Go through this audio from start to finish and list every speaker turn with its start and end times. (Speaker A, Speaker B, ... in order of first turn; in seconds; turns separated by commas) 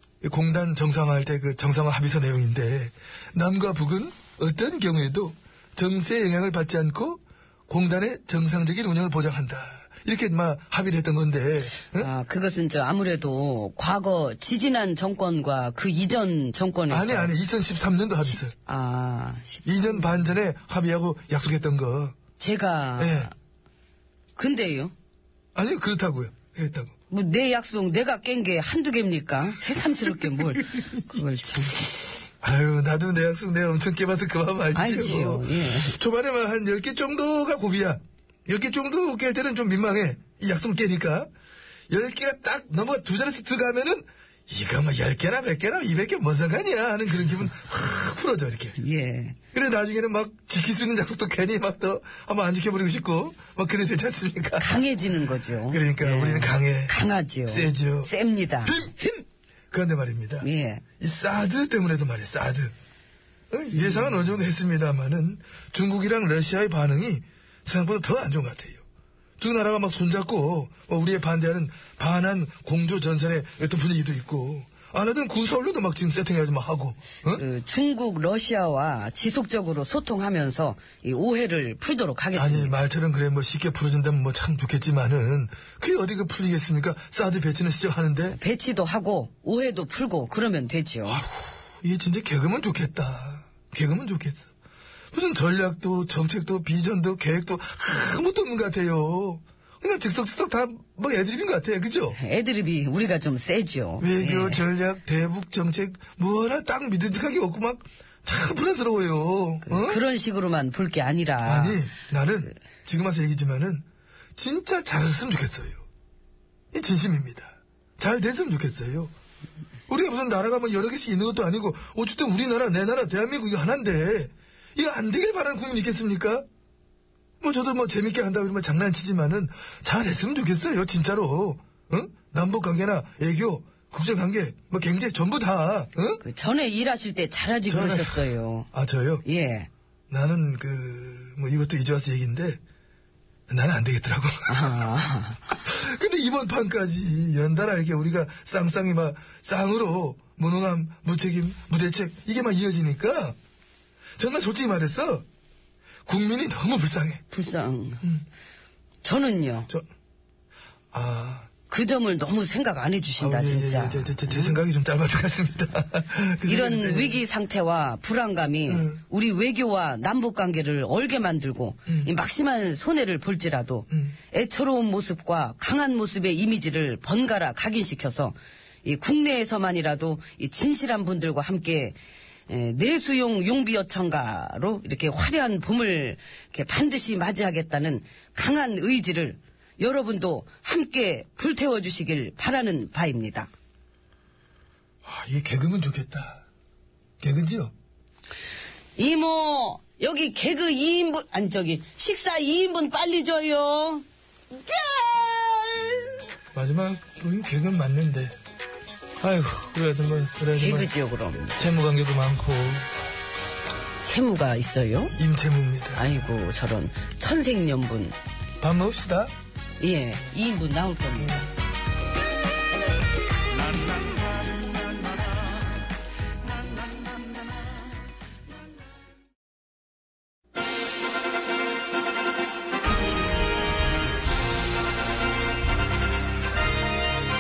Speaker A: 0.2-12.1, Speaker B: 12.0-17.3, Speaker A: 16.9-18.6, Speaker B: 18.3-20.3, Speaker A: 19.6-22.1, Speaker B: 22.4-23.3, Speaker A: 23.0-23.3, Speaker B: 24.4-24.9, Speaker A: 25.6-26.9, Speaker B: 27.1-32.0, Speaker A: 32.4-41.3, Speaker B: 34.7-36.0, Speaker A: 41.9-48.8, Speaker B: 48.8-49.4, Speaker A: 49.5-54.9, Speaker B: 54.6-59.2, Speaker A: 55.7-58.1, Speaker A: 58.6-59.0, Speaker A: 59.7-60.5, Speaker B: 60.4-60.8, Speaker A: 61.0-62.7, Speaker A: 63.5-68.8, Speaker B: 63.8-64.3, Speaker A: 69.4-77.4, Speaker B: 77.4-82.8, Speaker A: 82.3-88.4, Speaker B: 88.3-91.2, Speaker A: 91.1-94.5, Speaker A: 95.1-102.2, Speaker B: 102.2-104.7, Speaker A: 104.0-110.0, Speaker B: 109.7-111.8, Speaker A: 111.4-113.8, Speaker A: 114.4-115.8, Speaker A: 116.7-119.1, Speaker A: 119.9-126.5, Speaker A: 127.4-136.2, Speaker B: 136.2-138.7, Speaker A: 137.7-139.2, Speaker B: 139.2-139.7, Speaker A: 140.1-142.6, Speaker A: 143.5-144.9, Speaker B: 144.5-145.4, Speaker A: 145.7-153.4, Speaker A: 154.2-155.2, Speaker A: 156.1-157.2, Speaker B: 157.3-158.1, Speaker B: 159.0-159.7, Speaker A: 160.9-161.5, Speaker B: 161.7-164.6, Speaker A: 163.2-167.2, Speaker B: 166.5-182.0, Speaker A: 168.7-169.0, Speaker A: 173.9-174.2, Speaker B: 182.5-193.5, Speaker A: 195.1-196.4, Speaker A: 197.2-197.7, Speaker B: 199.0-204.1, Speaker B: 204.9-205.8, Speaker A: 206.5-208.4, Speaker A: 209.2-210.9, Speaker B: 210.6-211.7, Speaker A: 211.6-212.9, Speaker B: 214.0-215.2, Speaker A: 215.2-216.1, Speaker B: 215.9-218.2, Speaker A: 218.6-219.3, Speaker B: 219.8-221.5